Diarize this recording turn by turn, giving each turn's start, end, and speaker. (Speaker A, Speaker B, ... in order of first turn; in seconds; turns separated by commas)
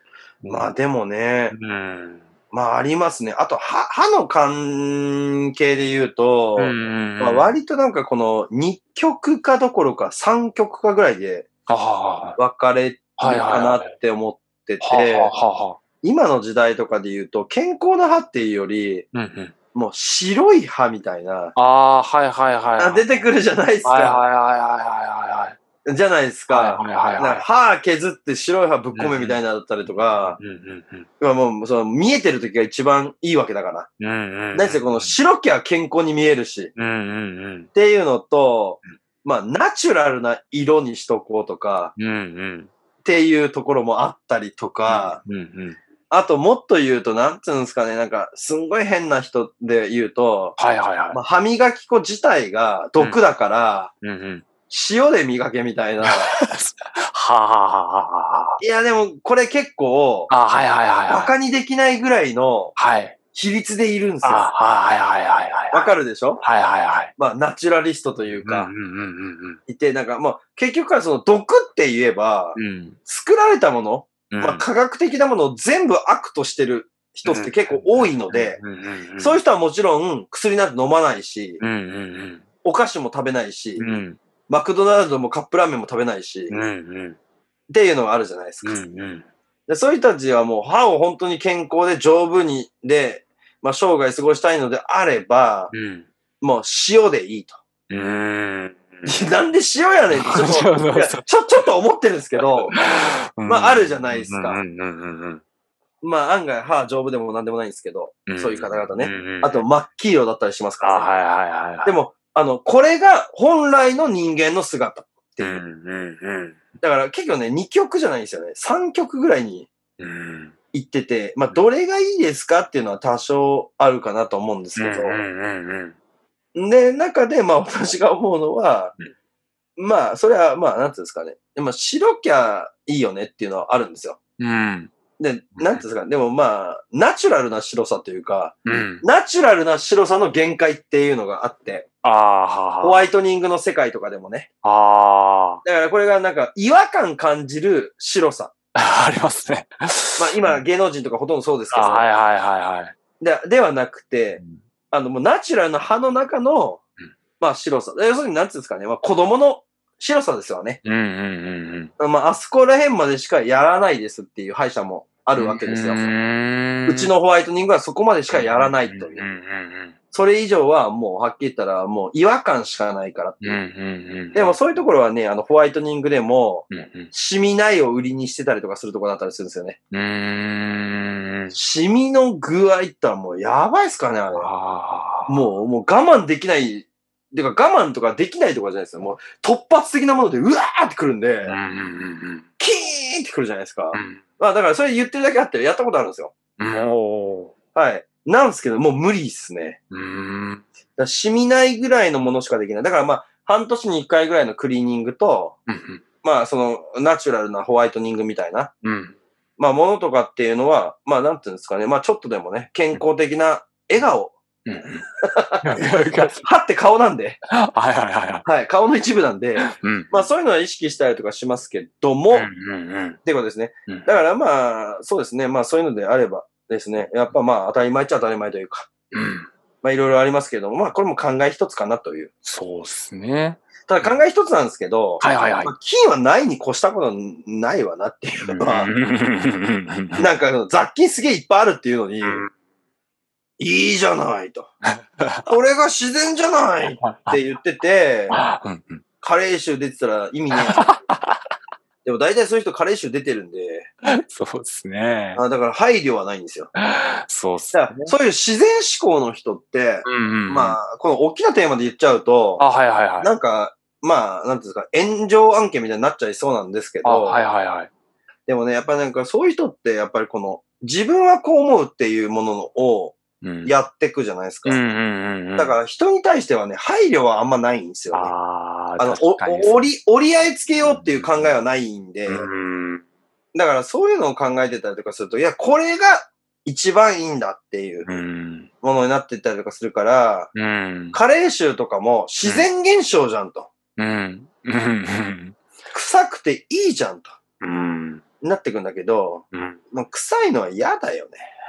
Speaker A: 0.4-0.7, Speaker B: 0.5-1.5, Speaker A: 1.5-2.3, Speaker B: 2.5-11.5, Speaker A: 6.6-7.5, Speaker A: 11.7-12.4, Speaker B: 12.4-15.3, Speaker A: 13.2-13.9, Speaker A: 14.8-15.8, Speaker B: 16.0-19.1, Speaker A: 19.1-19.5, Speaker B: 19.7-21.5, Speaker A: 21.5-23.2, Speaker B: 22.8-24.2, Speaker A: 23.8-25.6, Speaker B: 25.8-30.4, Speaker A: 26.5-27.4, Speaker A: 28.9-29.4, Speaker A: 29.9-31.1, Speaker B: 31.2-33.9, Speaker A: 34.0-35.1, Speaker B: 34.5-36.7, Speaker A: 36.7-37.7, Speaker B: 37.7-41.9, Speaker A: 42.0-42.7, Speaker B: 43.0-45.2, Speaker A: 44.9-45.8, Speaker B: 46.1-50.6, Speaker A: 50.6-51.2, Speaker B: 51.1-53.9, Speaker A: 53.0-53.2, Speaker A: 54.0-54.4, Speaker B: 54.7-56.3, Speaker A: 56.1-58.6, Speaker B: 58.6-60.3, Speaker A: 60.3-61.3, Speaker B: 61.1-62.8, Speaker A: 62.8-63.1, Speaker B: 63.3-64.5, Speaker A: 64.2-67.1, Speaker B: 65.7-66.4, Speaker B: 67.2-68.7, Speaker A: 68.2-69.6, Speaker B: 69.7-78.6, Speaker A: 72.5-73.0, Speaker A: 74.3-74.6, Speaker A: 77.2-79.4, Speaker B: 79.2-81.6, Speaker A: 81.6-82.4, Speaker B: 82.6-83.9, Speaker A: 83.8-84.2, Speaker B: 84.5-86.5, Speaker A: 86.5-87.2, Speaker B: 87.7-88.8, Speaker A: 88.6-89.2, Speaker B: 89.7-95.7, Speaker A: 95.7-96.1, Speaker B: 96.4-97.6, Speaker A: 97.9-99.1, Speaker B: 99.0-102.8, Speaker A: 100.1-101.6, Speaker A: 102.4-105.4, Speaker B: 103.4-104.6, Speaker B: 106.0-111.1, Speaker A: 108.3-109.7, Speaker A: 110.8-112.0, Speaker B: 111.8-115.6, Speaker A: 115.4-116.6, Speaker B: 116.8-119.7, Speaker A: 120.0-120.5, Speaker B: 120.7-125.2, Speaker A: 124.8-126.0, Speaker B: 126.5-128.9, Speaker B: 129.8-134.2, Speaker A: 134.4-134.9, Speaker B: 135.2-141.9, Speaker A: 135.6-135.8, Speaker A: 138.6-139.0, Speaker A: 142.0-143.1, Speaker B: 142.8-144.5, Speaker A: 144.6-145.6, Speaker B: 145.6-148.5, Speaker A: 148.7-150.6, Speaker B: 150.2-152.1, Speaker A: 151.7-152.9, Speaker B: 153.2-154.4, Speaker B: 154.9-156.8, Speaker B: 157.4-160.8, Speaker A: 160.8-161.9, Speaker B: 162.0-166.1, Speaker A: 165.3-167.1, Speaker B: 166.9-169.2, Speaker A: 168.3-169.9, Speaker B: 170.1-173.6, Speaker A: 173.4-174.6, Speaker B: 174.3-179.8, Speaker A: 176.7-177.1, Speaker A: 179.9-181.5, Speaker B: 181.5-184.5, Speaker A: 184.3-185.4, Speaker B: 185.3-191.6, Speaker A: 191.4-192.4, Speaker B: 192.6-196.3, Speaker A: 193.9-194.2, Speaker A: 196.6-197.5, Speaker B: 197.7-199.8, Speaker A: 199.9-200.6, Speaker B: 201.0-205.6, Speaker A: 205.7-206.0, Speaker B: 206.2-208.7, Speaker A: 208.8-209.2, Speaker B: 209.6-214.3, Speaker A: 214.7-215.1, Speaker B: 215.2-217.4, Speaker A: 215.6-216.4, Speaker A: 217.5-218.4, Speaker B: 218.4-222.5, Speaker A: 219.6-220.3, Speaker A: 222.3-223.2, Speaker B: 223.2-228.9, Speaker A: 229.1-229.5, Speaker B: 229.8-232.3, Speaker A: 232.4-234.2, Speaker B: 233.9-238.9, Speaker A: 235.2-235.7, Speaker A: 238.4-240.3, Speaker B: 240.2-242.4, Speaker A: 242.2-242.5, Speaker B: 243.6-244.7, Speaker A: 245.0-245.5, Speaker B: 245.5-248.4, Speaker A: 247.0-247.4, Speaker A: 248.3-249.0, Speaker B: 249.2-250.9, Speaker A: 250.6-251.4, Speaker B: 252.0-253.9, Speaker A: 254.1-255.4, Speaker B: 255.3-256.7, Speaker A: 256.7-258.1, Speaker B: 257.7-262.6, Speaker A: 260.0-260.8, Speaker A: 262.6-263.3, Speaker B: 263.2-267.4, Speaker A: 267.0-267.9, Speaker B: 268.5-274.8, Speaker A: 273.4-273.7, Speaker A: 274.6-275.8, Speaker B: 275.6-278.3, Speaker A: 278.1-279.9, Speaker B: 279.0-282.5, Speaker A: 280.8-281.5, Speaker A: 282.3-283.0, Speaker B: 283.5-288.1, Speaker A: 288.1-288.7, Speaker B: 288.8-290.5, Speaker A: 290.5-291.2, Speaker B: 291.1-293.7, Speaker A: 292.4-292.7, Speaker A: 294.0-295.5, Speaker B: 295.9-297.4, Speaker A: 297.6-298.2, Speaker B: 298.4-301.5, Speaker A: 299.5-299.8